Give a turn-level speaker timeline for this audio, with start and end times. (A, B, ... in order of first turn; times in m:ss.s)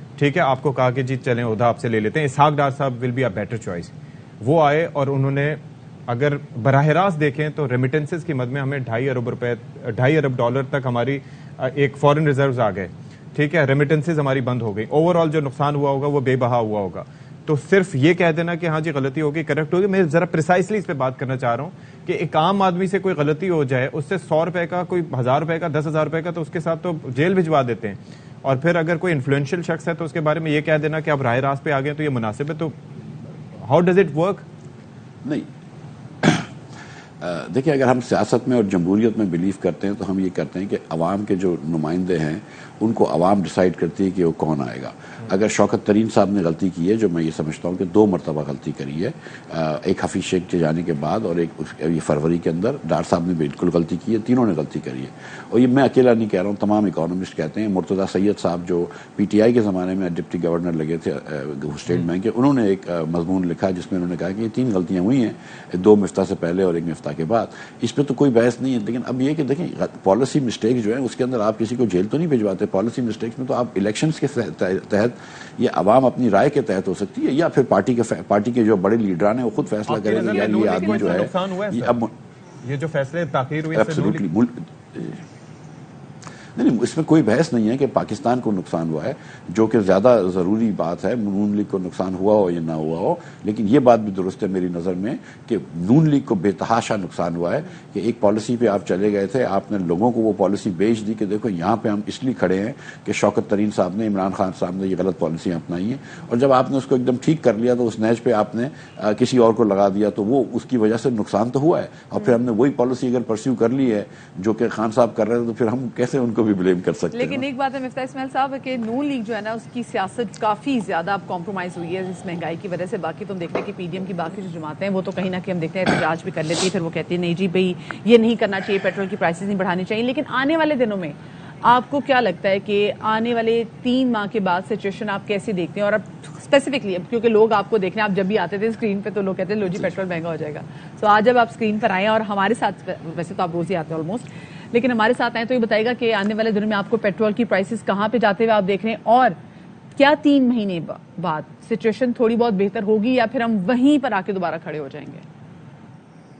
0:00.2-0:32.8 A
0:33.6-0:34.4 A
0:36.2-0:36.5 B
0:37.2-1:22.1 B
1:19.9-1:22.0 A
1:20.1-1:21.3 C
1:22.6-1:24.2 A
1:23.7-1:25.2 B
1:26.5-1:57.4 B
1:57.1-2:29.4 C
2:30.0-2:35.2 C